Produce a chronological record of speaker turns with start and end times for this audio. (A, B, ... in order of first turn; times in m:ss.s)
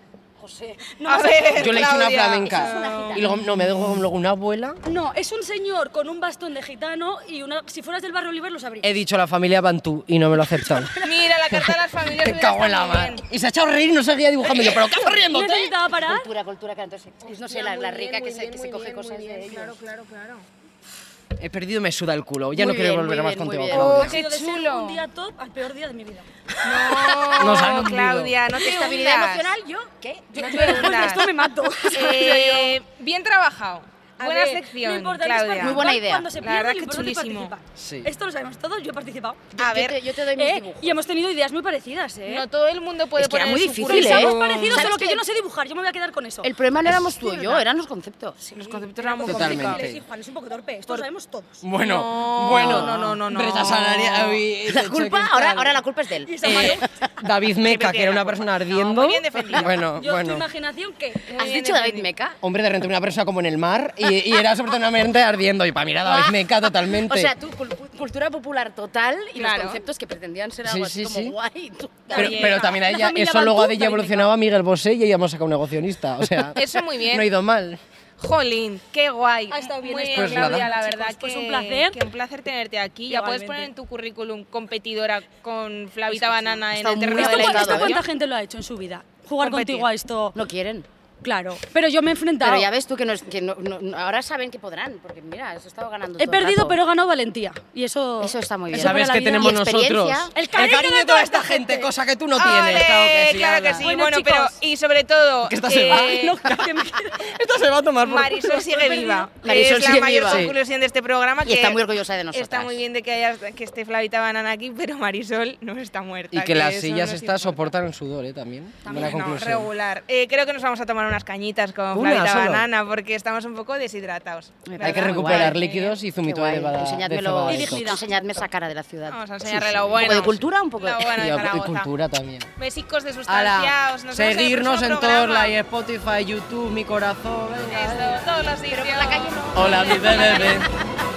0:00.4-0:00.8 A
0:00.8-0:01.8 B
0:01.0-0:03.3 C
0:01.5-0:04.8 D
0:02.4-0:03.3 A
0:04.8-0:08.9 B
0:08.8-0:10.9 D
0:10.5-0:11.4 B
0:11.0-0:13.2 C
0:11.5-0:15.8 D
0:14.6-0:16.3 B
0:16.0-0:19.8 A
0:17.2-0:20.4 C
0:21.4-0:24.2 D
0:22.5-0:24.1 A
0:23.7-0:25.0 C
0:23.9-0:26.3 B
0:26.6-0:29.5 C
0:27.3-0:28.4 D
0:28.6-0:31.3 A
0:30.3-0:32.8 B
0:30.4-0:31.3 C
0:31.9-0:35.9 C
0:34.2-0:39.5 B
0:35.6-0:36.3 A
0:36.4-0:37.6 C
0:37.8-0:38.1 D
0:39.6-0:41.0 A
0:39.6-0:40.0 C
0:40.4-0:42.5 B
0:42.2-0:45.0 C
0:43.2-0:45.2 A
0:43.8-0:46.5 B
0:46.4-0:48.5 A
0:47.2-0:47.6 C
0:48.4-0:51.6 B
0:48.6-0:49.9 C
0:49.2-0:50.0 D
0:51.6-0:55.8 D
0:51.8-0:54.1 C
0:52.5-0:53.0 A
0:54.6-0:57.1 A
0:56.3-0:56.9 B
0:56.4-1:00.5 D
0:57.6-0:59.8 C
1:00.0-1:01.3 B
1:01.3-1:02.1 C
1:01.4-1:02.4 A
1:02.4-1:07.3 D
1:06.0-1:12.7 A
1:09.4-1:09.8 C
1:10.6-1:11.4 D
1:12.1-1:17.8 D
1:12.1-1:12.8 C
1:12.2-1:14.3 B
1:16.6-1:17.3 C
1:18.2-1:28.0 C
1:19.5-1:22.0 B
1:20.1-1:20.7 D
1:23.1-1:23.7 B
1:26.1-1:30.4 B
1:26.7-1:28.0 A
1:29.4-1:29.9 C
1:30.3-1:30.9 A
1:31.2-1:32.7 B
1:32.4-1:36.8 A
1:36.2-1:39.7 B
1:38.2-1:40.3 A
1:38.7-1:43.9 D
1:40.3-1:41.9 B
1:42.4-1:46.4 C
1:43.8-1:44.6 B
1:45.4-1:48.8 D
1:45.9-1:47.3 B
1:48.0-1:51.8 C
1:48.7-1:49.3 B
1:49.4-1:50.5 A
1:49.4-1:50.6 D
1:51.4-1:52.8 A
1:52.3-1:57.6 C
1:56.3-1:59.7 D
1:58.8-1:59.3 B
1:58.9-2:06.0 C
2:01.9-2:02.7 D
2:04.7-2:05.6 A
2:04.8-2:08.0 D
2:06.2-2:11.4 A
2:07.5-2:08.0 B
2:09.1-2:11.9 C
2:09.5-2:10.3 D
2:11.1-2:12.5 D
2:12.6-2:15.6 C
2:13.3-2:18.2 D
2:17.7-2:20.6 C
2:18.7-2:20.3 A
2:19.5-2:20.7 D